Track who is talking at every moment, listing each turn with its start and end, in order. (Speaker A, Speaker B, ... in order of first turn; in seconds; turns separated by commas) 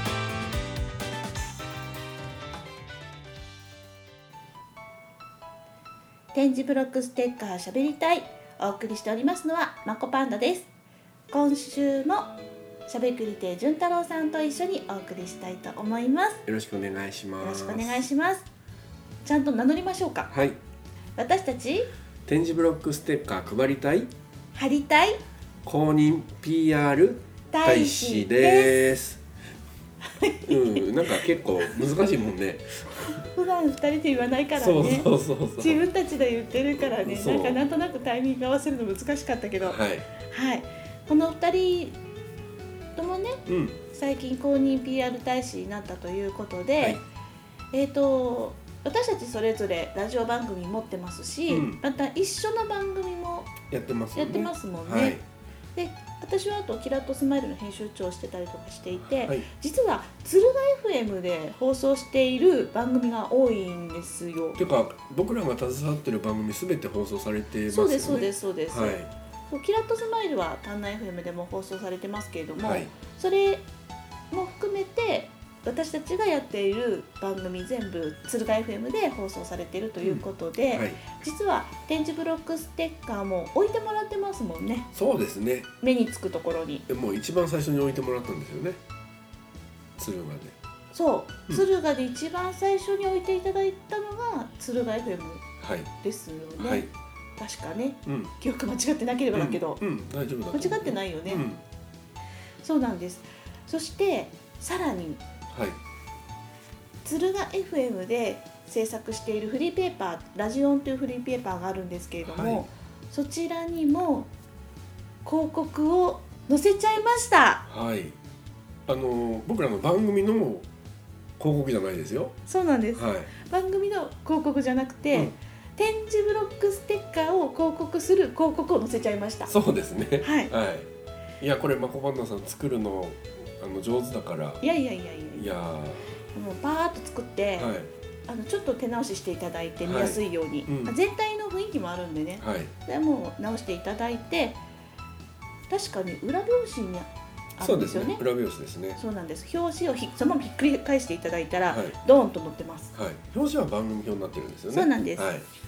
Speaker A: 6.3-10.7, Speaker A: 11.3-12.3, Speaker A: 12.9-16.4, Speaker B: 16.5-18.1, Speaker A: 17.4-18.5, Speaker A: 19.2-20.3, Speaker B: 20.3-20.6, Speaker A: 21.2-21.9, Speaker B: 22.3-24.1, Speaker A: 24.5-25.2, Speaker B: 25.6-29.2, Speaker A: 27.5-28.8, Speaker A: 30.0-31.9, Speaker B: 30.5-33.1, Speaker A: 33.1-42.0, Speaker B: 34.6-35.8, Speaker B: 36.7-37.6, Speaker B: 39.6-40.1, Speaker A: 43.0-47.0, Speaker B: 43.5-43.8, Speaker A: 47.7-53.6, Speaker B: 51.5-51.8, Speaker B: 53.7-55.2, Speaker A: 54.1-55.2, Speaker A: 55.8-64.6, Speaker B: 64.6-69.1, Speaker A: 67.7-69.0, Speaker A: 69.5-73.7, Speaker B: 72.6-72.9, Speaker A: 74.3-84.9, Speaker B: 80.0-81.0, Speaker B: 84.9-85.7, Speaker A: 85.8-86.9, Speaker B: 86.9-88.8, Speaker B: 90.0-90.5, Speaker A: 90.9-95.5, Speaker B: 95.6-95.9, Speaker A: 96.0-99.8, Speaker B: 96.6-96.9, Speaker B: 98.1-98.3, Speaker B: 99.3-101.6, Speaker A: 100.5-101.5, Speaker A: 102.6-105.2, Speaker B: 105.5-105.8, Speaker A: 107.0-114.3, Speaker B: 112.2-112.7, Speaker A: 115.2-117.7, Speaker B: 117.7-118.2, Speaker B: 118.9-120.7, Speaker B: 121.4-122.4, Speaker A: 122.5-129.5, Speaker B: 122.9-123.3, Speaker B: 129.5-130.9, Speaker A: 130.2-130.5, Speaker B: 131.4-134.6, Speaker A: 134.6-135.5, Speaker B: 135.4-136.1, Speaker A: 136.3-137.7, Speaker B: 137.6-137.9, Speaker A: 138.3-144.6, Speaker B: 139.8-140.9, Speaker B: 142.4-142.7, Speaker A: 145.7-148.2, Speaker B: 147.6-149.0, Speaker A: 149.0-152.9, Speaker B: 151.7-152.0, Speaker B: 152.9-155.5, Speaker A: 154.7-155.3